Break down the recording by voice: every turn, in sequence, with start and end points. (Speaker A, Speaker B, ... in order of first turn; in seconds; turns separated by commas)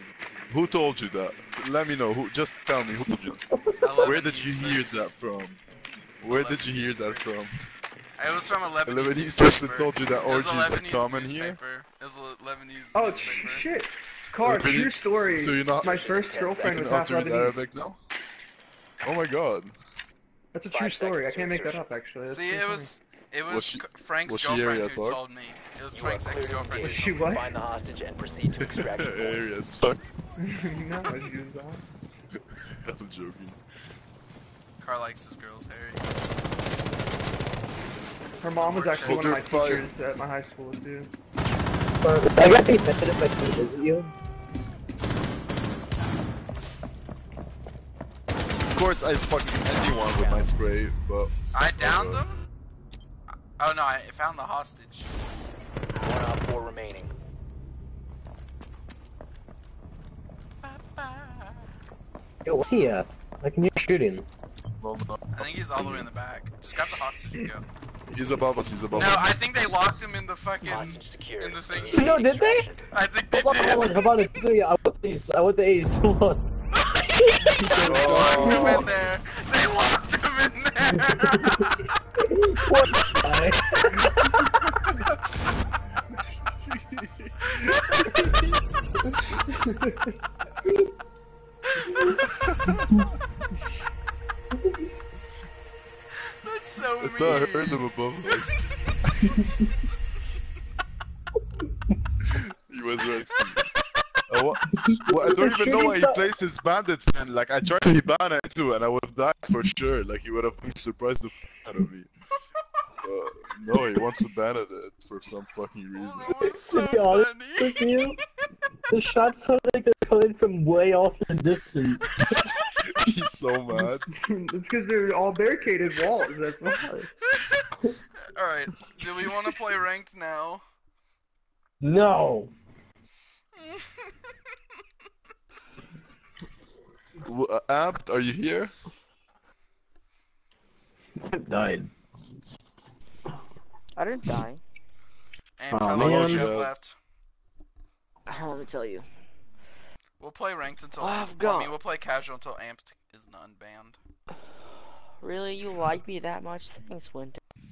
Speaker A: 0.5-3.4, Speaker B: 3.8-5.0, Speaker A: 4.0-5.6, Speaker A: 6.2-7.6, Speaker B: 6.3-7.3, Speaker B: 8.2-13.7, Speaker A: 8.9-11.6, Speaker C: 12.9-17.7, Speaker A: 14.4-16.0, Speaker D: 15.8-16.8, Speaker A: 16.6-18.0, Speaker A: 19.0-19.7, Speaker C: 20.5-22.9, Speaker D: 20.7-21.8, Speaker B: 22.3-27.2, Speaker A: 23.5-25.2, Speaker D: 25.9-29.5, Speaker C: 26.8-27.4, Speaker A: 28.6-30.0, Speaker C: 30.4-31.9, Speaker A: 32.4-33.6, Speaker B: 34.8-36.1, Speaker C: 38.4-41.1, Speaker B: 38.6-39.4, Speaker A: 39.0-39.8, Speaker E: 42.0-44.1, Speaker A: 48.7-52.2, Speaker D: 50.2-50.5, Speaker B: 51.5-52.4, Speaker B: 53.6-55.1, Speaker D: 56.0-57.1, Speaker B: 60.6-61.7, Speaker E: 62.4-64.3, Speaker A: 64.8-65.4, Speaker B: 65.3-67.7, Speaker A: 68.1-69.4, Speaker B: 68.9-72.3, Speaker D: 70.6-72.8, Speaker E: 71.9-72.7, Speaker B: 72.9-74.2, Speaker E: 73.3-76.5, Speaker B: 76.7-81.9, Speaker C: 77.6-78.6, Speaker A: 77.8-78.8, Speaker E: 77.9-78.8, Speaker E: 82.2-83.9, Speaker B: 83.7-84.5, Speaker A: 86.6-88.4, Speaker B: 87.7-88.4, Speaker C: 89.6-90.0, Speaker B: 91.7-92.7, Speaker A: 92.1-92.7, Speaker B: 96.2-97.8, Speaker A: 97.0-98.7, Speaker A: 102.2-103.7, Speaker A: 104.3-112.1, Speaker E: 104.8-106.2, Speaker A: 113.0-116.4, Speaker B: 115.9-118.1, Speaker E: 116.7-118.2, Speaker E: 118.9-122.2, Speaker A: 122.3-124.1, Speaker C: 124.1-127.1, Speaker B: 127.3-127.7, Speaker B: 128.2-130.6, Speaker E: 131.8-132.5, Speaker B: 133.6-134.1, Speaker A: 137.2-138.7, Speaker E: 141.2-141.9, Speaker F: 143.9-144.6, Speaker B: 145.6-146.9, Speaker E: 145.7-146.6, Speaker A: 145.9-146.7, Speaker F: 148.3-149.1, Speaker B: 150.2-154.0, Speaker F: 151.0-151.7, Speaker F: 155.2-157.4